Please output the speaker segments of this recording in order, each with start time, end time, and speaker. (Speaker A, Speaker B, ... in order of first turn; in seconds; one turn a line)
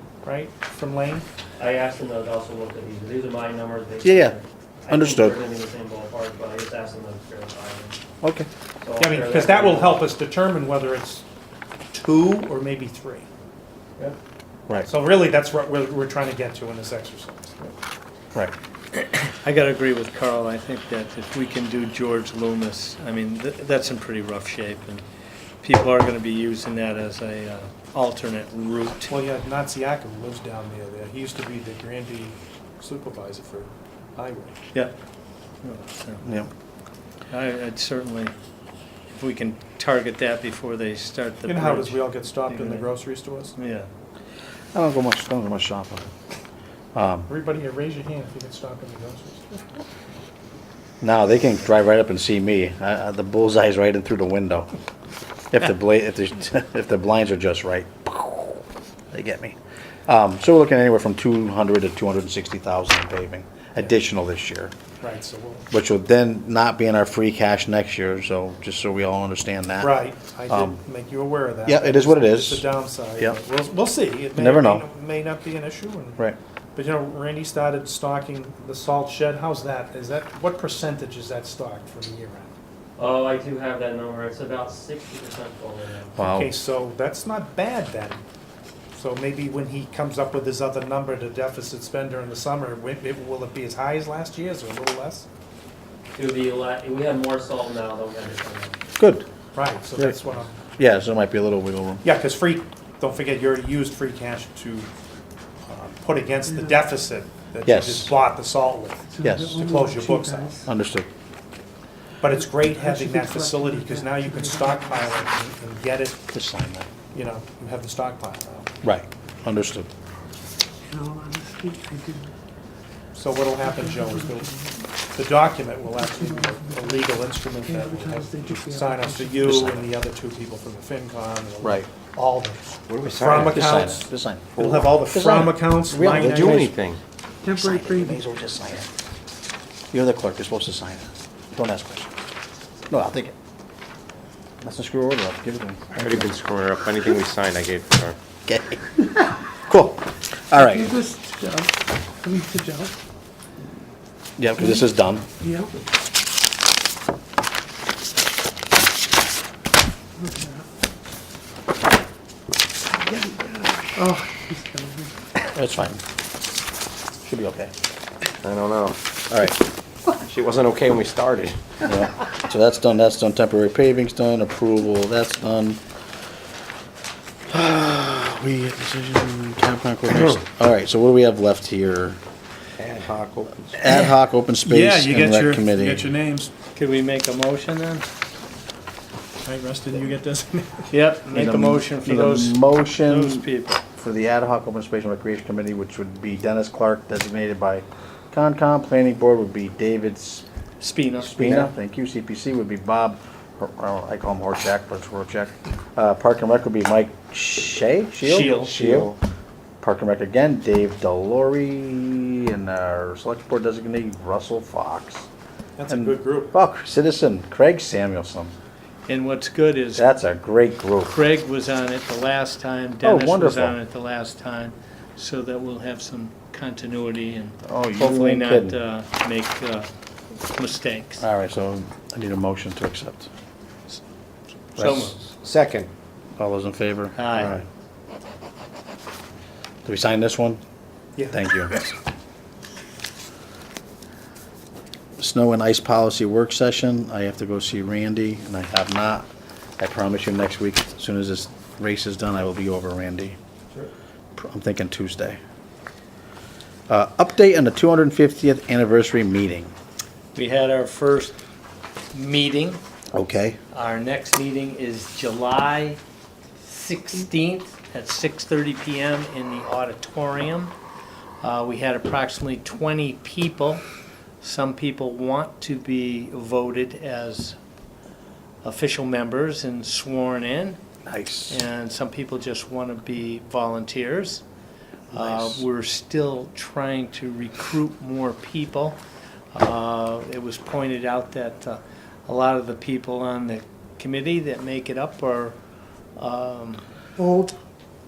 Speaker A: 0.2-1.3
Speaker B: 1.6-8.0
Speaker C: 4.0-4.3
Speaker C: 4.9-5.4
Speaker C: 8.2-8.5
Speaker B: 8.8-10.1
Speaker A: 9.0-11.2
Speaker A: 11.9-13.3
Speaker A: 14.8-17.7
Speaker D: 19.3-25.0
Speaker D: 25.6-29.1
Speaker A: 29.1-34.6
Speaker D: 35.6-36.3
Speaker C: 36.2-36.5
Speaker D: 37.3-38.3
Speaker D: 39.1-42.9
Speaker A: 41.5-43.5
Speaker D: 43.5-43.9
Speaker C: 44.7-46.1
Speaker C: 46.9-47.3
Speaker A: 47.3-49.7
Speaker C: 51.0-54.7
Speaker C: 55.5-64.7
Speaker A: 65.0-65.7
Speaker C: 65.7-70.8
Speaker A: 69.8-76.2
Speaker C: 71.7-72.6
Speaker C: 74.3-74.8
Speaker A: 76.7-82.5
Speaker B: 83.0-86.2
Speaker C: 86.2-86.5
Speaker A: 86.2-88.2
Speaker A: 88.9-95.3
Speaker B: 96.1-98.8
Speaker C: 99.0-99.3
Speaker A: 99.5-100.5
Speaker C: 100.8-102.0
Speaker A: 102.0-104.9
Speaker A: 105.7-110.6
Speaker C: 107.6-108.1
Speaker E: 109.1-110.7
Speaker C: 109.2-109.5
Speaker C: 110.6-111.1
Speaker A: 112.2-116.2
Speaker E: 112.4-115.1
Speaker C: 116.3-116.9
Speaker A: 117.1-118.7
Speaker C: 118.8-119.9
Speaker E: 120.9-122.3
Speaker A: 123.1-136.7
Speaker E: 123.7-124.7
Speaker E: 126.0-129.6
Speaker C: 129.4-129.8
Speaker C: 131.6-131.9
Speaker F: 132.9-133.7
Speaker C: 133.3-136.8
Speaker F: 134.5-134.9
Speaker F: 135.9-137.0
Speaker E: 137.4-138.2
Speaker C: 137.5-138.9
Speaker C: 139.9-142.1
Speaker C: 142.9-143.3
Speaker C: 144.6-146.3
Speaker F: 145.9-148.2
Speaker C: 148.4-151.0
Speaker E: 150.5-152.9
Speaker C: 154.4-155.2
Speaker E: 155.4-155.8
Speaker E: 160.2-160.6
Speaker E: 163.0-165.1
Speaker C: 165.5-166.0
Speaker C: 167.2-167.7
Speaker F: 168.4-169.0
Speaker C: 169.3-169.6
Speaker F: 170.2-171.7
Speaker C: 171.8-175.8
Speaker C: 177.5-182.2
Speaker F: 182.8-183.8
Speaker C: 183.7-186.1
Speaker A: 184.6-186.5
Speaker D: 186.7-188.1
Speaker A: 189.4-190.9
Speaker D: 190.9-193.8
Speaker C: 191.3-200.4
Speaker D: 200.8-201.7
Speaker C: 201.2-209.1
Speaker D: 208.2-208.7
Speaker F: 208.5-209.2
Speaker C: 209.8-215.3
Speaker A: 215.8-216.5
Speaker C: 215.9-218.5
Speaker D: 219.1-220.1
Speaker C: 219.9-221.1
Speaker D: 221.1-229.9
Speaker C: 223.0-223.8
Speaker C: 227.6-228.8
Speaker D: 230.4-231.2
Speaker C: 231.2-233.3
Speaker D: 234.8-235.2
Speaker C: 234.8-235.1
Speaker F: 235.3-235.9
Speaker C: 236.4-237.6
Speaker D: 237.2-237.6
Speaker C: 239.8-240.6
Speaker A: 241.2-241.5
Speaker C: 241.3-241.9
Speaker C: 245.2-249.3
Speaker C: 249.8-253.4
Speaker C: 254.3-255.4
Speaker C: 256.9-259.7
Speaker D: 260.3-261.4
Speaker D: 262.1-262.8
Speaker C: 263.1-263.6
Speaker D: 263.7-266.0
Speaker D: 266.6-270.7
Speaker D: 271.4-273.8
Speaker D: 274.4-277.6
Speaker D: 278.6-280.8
Speaker C: 281.1-281.6
Speaker D: 281.5-284.4
Speaker C: 285.1-285.6
Speaker D: 285.1-289.0
Speaker D: 289.5-295.6
Speaker D: 296.1-296.8
Speaker E: 297.2-297.5